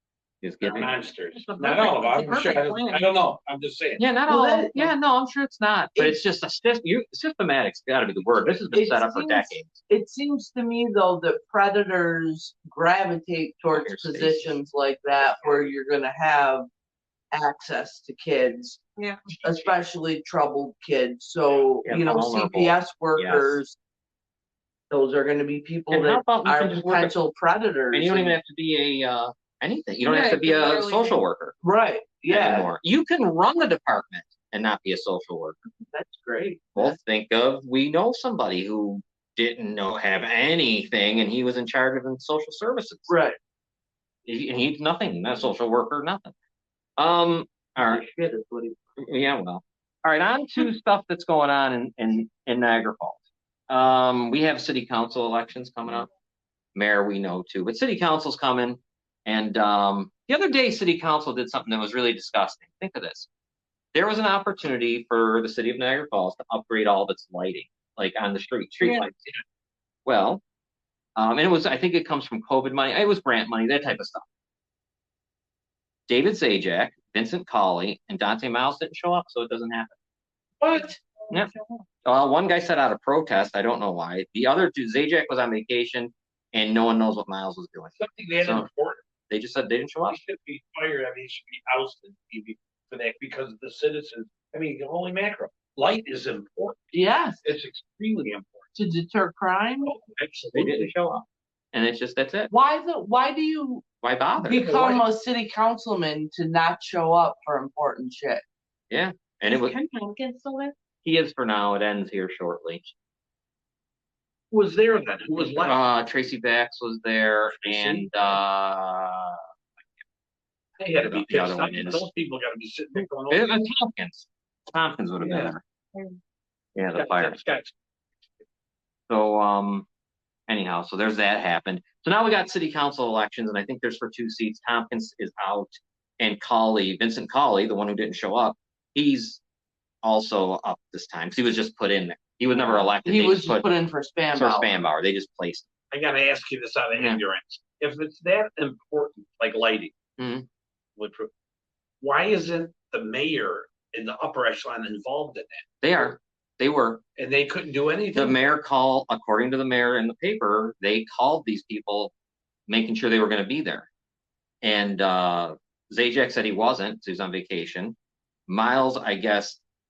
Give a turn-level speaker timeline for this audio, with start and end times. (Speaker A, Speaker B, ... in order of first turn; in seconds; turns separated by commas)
Speaker A: 0.4-3.1, Speaker B: 0.6-4.1, Speaker A: 4.0-9.8, Speaker C: 4.3-4.9, Speaker C: 8.7-16.7, Speaker A: 13.7-14.6, Speaker B: 15.2-15.7, Speaker C: 17.3-18.8, Speaker D: 19.0-19.3, Speaker C: 19.4-23.8, Speaker A: 21.8-23.6, Speaker C: 24.9-28.4, Speaker A: 25.9-27.1, Speaker A: 27.9-31.6, Speaker D: 30.1-31.0, Speaker C: 31.6-32.7, Speaker A: 32.3-35.6, Speaker C: 35.9-37.0, Speaker A: 36.7-43.1, Speaker C: 43.1-43.4, Speaker A: 44.2-46.3, Speaker A: 47.0-48.0, Speaker C: 47.8-48.8, Speaker A: 49.0-56.1, Speaker A: 56.7-63.3, Speaker A: 63.9-69.4, Speaker D: 68.8-69.1, Speaker A: 70.1-70.4, Speaker A: 71.2-74.2, Speaker A: 76.1-80.0, Speaker B: 80.6-81.0, Speaker D: 81.5-81.8, Speaker A: 82.0-88.7, Speaker B: 88.0-89.0, Speaker A: 89.3-90.2, Speaker B: 90.1-98.7, Speaker C: 96.9-97.4, Speaker C: 98.8-99.9, Speaker B: 99.8-100.9, Speaker A: 100.5-102.5, Speaker C: 102.5-108.4, Speaker A: 104.0-104.7, Speaker B: 104.7-105.0, Speaker A: 108.9-109.8, Speaker D: 109.5-110.7, Speaker A: 111.0-112.9, Speaker B: 114.5-115.8, Speaker A: 115.5-119.4, Speaker B: 117.5-118.4, Speaker B: 120.8-123.6, Speaker A: 121.0-122.1, Speaker A: 123.0-125.6, Speaker B: 125.2-125.5, Speaker A: 126.8-127.4, Speaker B: 126.9-127.7, Speaker A: 129.1-129.9, Speaker A: 130.5-139.4, Speaker A: 140.0-143.7, Speaker C: 143.0-144.7, Speaker A: 144.3-145.7, Speaker B: 145.9-149.9, Speaker A: 146.9-147.2, Speaker A: 150.2-150.5, Speaker B: 151.0-151.3, Speaker B: 152.0-155.6, Speaker A: 155.8-157.0, Speaker B: 157.2-158.4, Speaker A: 158.1-162.1, Speaker A: 162.7-163.9, Speaker A: 164.6-168.0, Speaker A: 168.5-169.6